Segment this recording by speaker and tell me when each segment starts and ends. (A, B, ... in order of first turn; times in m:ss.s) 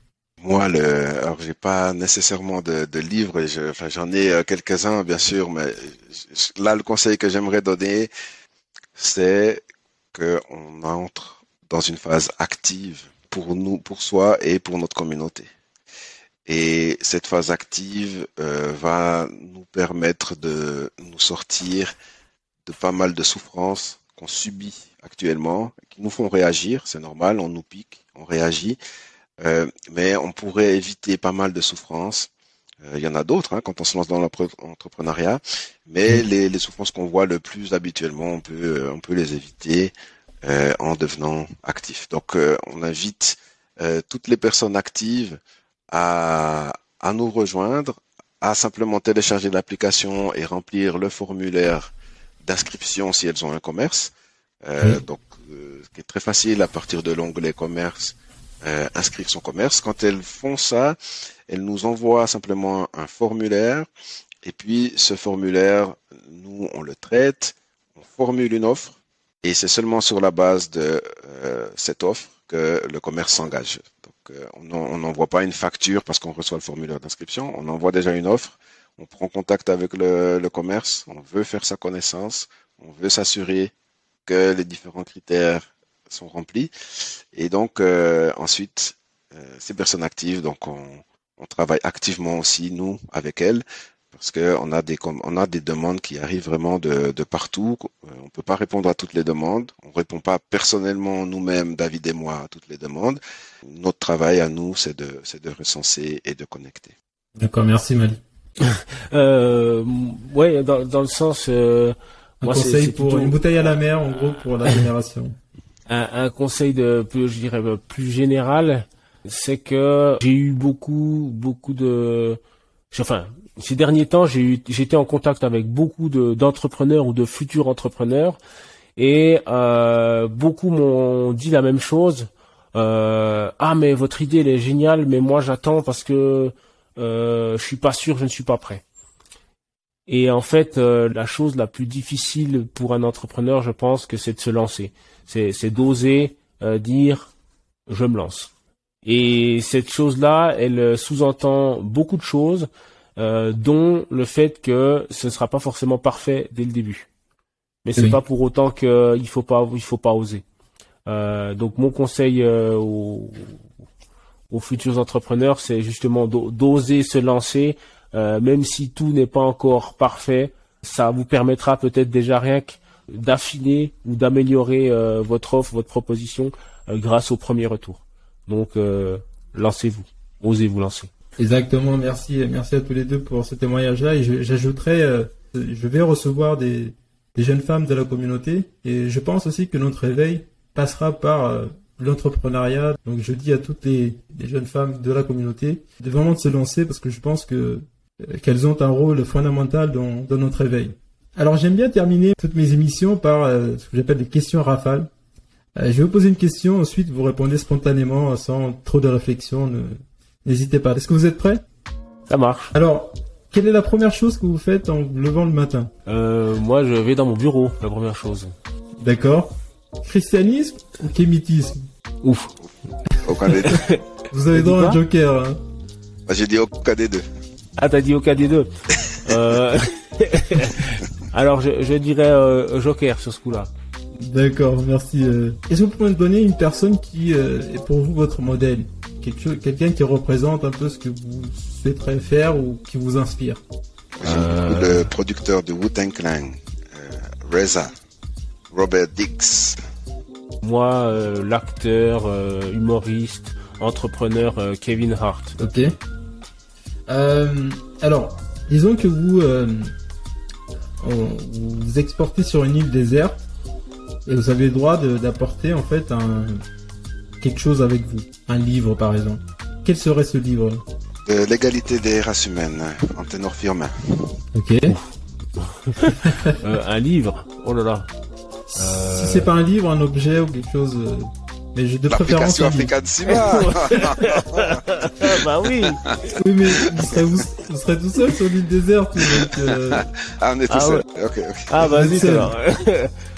0:00.4-0:08.1 A
0:09.0-0:09.6 A
0:10.1-0:15.5 A
0:16.4-0:21.9 A
0:22.6-0:28.8 A
0:29.4-0:32.3 A
0:32.8-0:39.9 A
0:40.4-0:45.4 A
0:45.9-0:51.9 A
0:52.4-0:54.1 A
0:54.6-1:01.0 A
1:01.5-1:03.9 A
1:04.4-1:23.7 A
1:24.2-1:26.7 A
1:27.3-1:46.9 A
1:47.4-1:48.2 B
1:48.6-1:53.4 C
1:52.4-1:55.3 B
1:55.9-2:02.4 C
2:02.9-2:08.4 C
2:09.0-2:18.8 C
2:20.1-2:27.3 C
2:27.9-2:28.5 C
2:29.0-2:37.1 C
2:37.8-2:40.4 C
2:41.0-2:43.6 C
2:44.5-3:01.1 C
3:01.4-3:25.1 B
3:25.8-3:31.6 B
3:32.3-3:32.7 C
3:32.7-3:35.9 B
3:36.0-3:38.5 C
3:39.0-3:41.8 B
3:42.2-3:42.5 C
3:43.2-3:43.8 A
3:43.2-3:43.6 B
3:43.6-3:45.0 C
3:44.3-3:45.6 B
3:46.3-3:47.2 A
3:47.8-3:53.7 C
3:54.2-4:03.6 B
4:04.2-4:07.9 A
4:04.2-4:05.1 C
4:08.7-4:09.8 A
4:10.6-4:15.6 C
4:15.6-4:15.9 B
4:17.1-4:19.9 B
4:21.0-4:23.4 B
4:24.2-4:26.6 B
4:27.4-4:30.8 B
4:31.2-4:34.4 A
4:34.5-4:35.0 B
4:34.9-4:38.1 C
4:36.2-4:36.5 B
4:38.7-4:42.9 B
4:38.8-4:39.5 C
4:42.1-4:45.9 A
4:43.3-4:46.2 C
4:46.3-4:50.0 B
4:46.8-4:47.2 A
4:49.3-4:51.8 A
4:50.7-4:51.0 C
4:51.7-4:53.1 C
4:51.8-4:52.5 B